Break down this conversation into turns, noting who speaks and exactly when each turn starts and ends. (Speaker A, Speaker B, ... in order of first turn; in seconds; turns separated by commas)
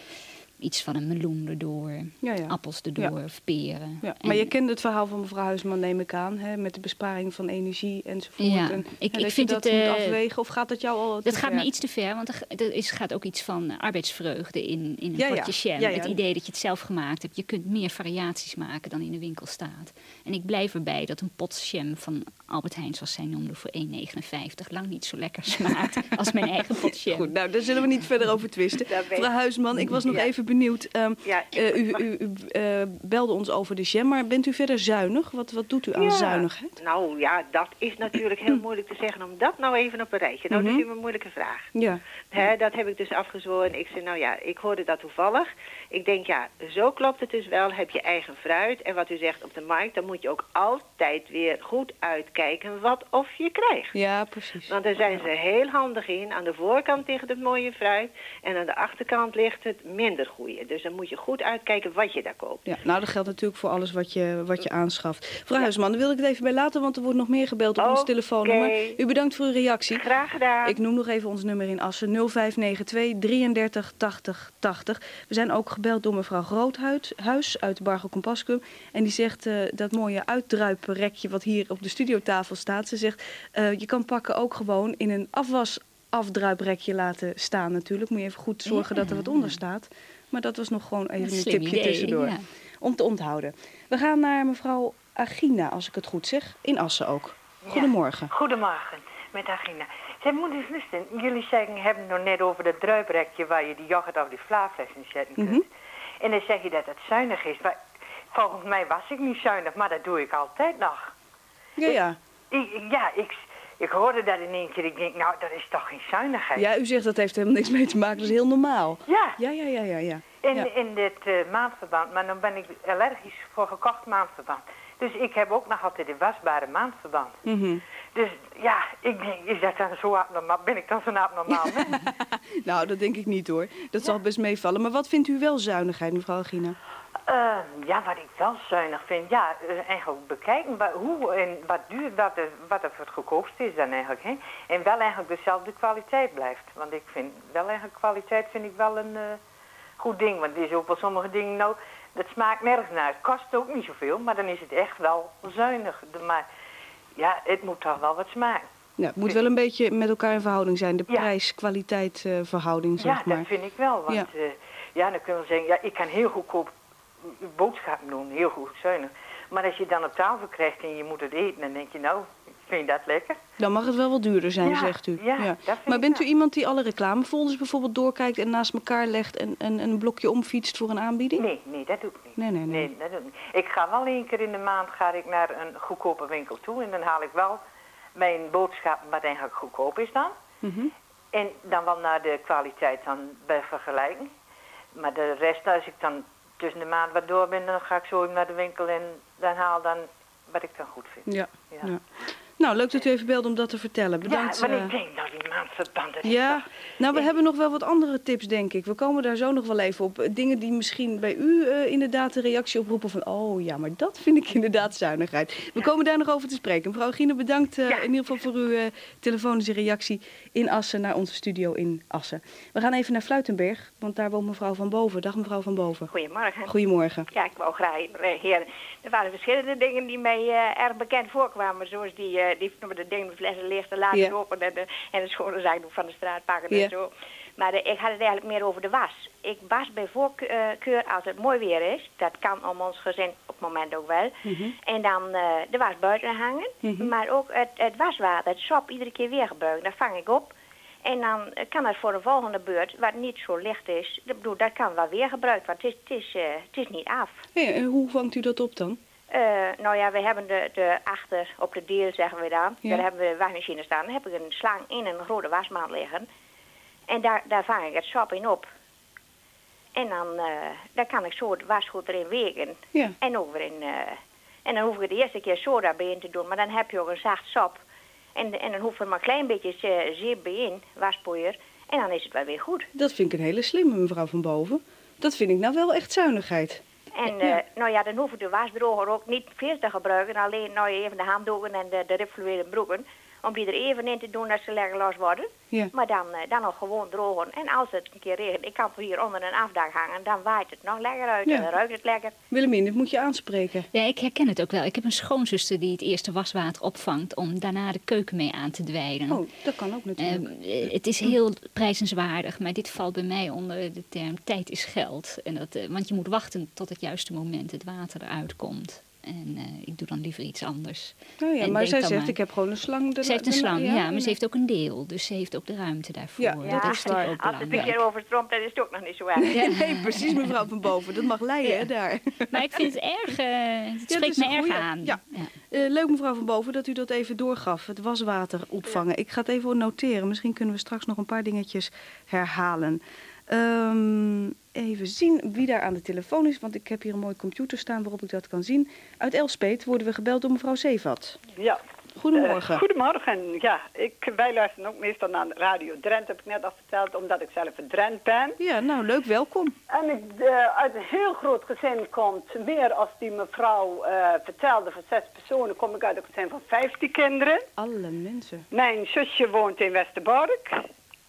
Speaker A: 0.6-4.5, Speaker B: 2.2-3.1, Speaker B: 4.0-11.7, Speaker A: 8.4-10.2, Speaker A: 11.2-27.3, Speaker B: 15.2-16.1, Speaker B: 26.9-36.8, Speaker C: 31.3-31.9, Speaker C: 36.0-41.7, Speaker B: 40.5-40.8, Speaker B: 41.7-42.0, Speaker C: 42.3-53.9, Speaker B: 53.9-54.7, Speaker C: 54.7-62.6, Speaker B: 62.6-70.0, Speaker C: 67.8-69.0, Speaker C: 69.9-70.8, Speaker B: 70.6-98.3, Speaker A: 88.7-89.6, Speaker A: 91.2-92.5, Speaker D: 97.6-105.7, Speaker B: 105.4-105.6, Speaker D: 106.2-111.1, Speaker B: 111.8-112.2, Speaker D: 112.5-116.7, Speaker B: 116.5-120.7, Speaker D: 119.0-119.4, Speaker D: 120.4-127.4, Speaker B: 127.4-127.8, Speaker D: 128.1-132.0, Speaker B: 131.5-136.8, Speaker D: 137.3-149.4, Speaker D: 150.0-156.4, Speaker D: 157.2-158.7, Speaker B: 159.0-163.5, Speaker D: 163.0-166.7, Speaker D: 167.2-173.4, Speaker B: 173.6-181.4, Speaker D: 174.6-176.2, Speaker D: 181.4-187.6, Speaker B: 182.3-182.9, Speaker D: 188.1-190.3, Speaker B: 190.6-190.9, Speaker D: 191.3-194.3, Speaker D: 194.9-201.9, Speaker B: 201.2-202.0, Speaker B: 202.6-204.9, Speaker D: 204.2-207.3, Speaker B: 206.2-226.1, Speaker E: 226.1-226.7, Speaker B: 226.7-227.3, Speaker E: 227.3-257.4, Speaker B: 244.4-244.7, Speaker B: 246.8-247.1, Speaker B: 257.5-259.0, Speaker E: 259.3-266.3, Speaker E: 267.1-268.6, Speaker E: 269.9-277.8, Speaker E: 278.4-282.9, Speaker B: 282.9-286.8, Speaker E: 287.1-302.3, Speaker B: 302.5-303.9, Speaker A: 303.9-309.4, Speaker B: 309.3-311.3, Speaker A: 310.2-322.4, Speaker B: 321.4-324.4, Speaker A: 323.2-328.0, Speaker B: 326.4-327.8, Speaker E: 326.6-329.7, Speaker B: 329.4-332.8, Speaker A: 329.5-330.5, Speaker A: 332.5-335.5, Speaker B: 334.1-351.4, Speaker F: 351.6-351.8, Speaker B: 352.1-352.8, Speaker F: 352.3-358.6, Speaker B: 358.6-359.7, Speaker F: 359.9-367.6, Speaker B: 367.8-368.7, Speaker F: 368.7-370.8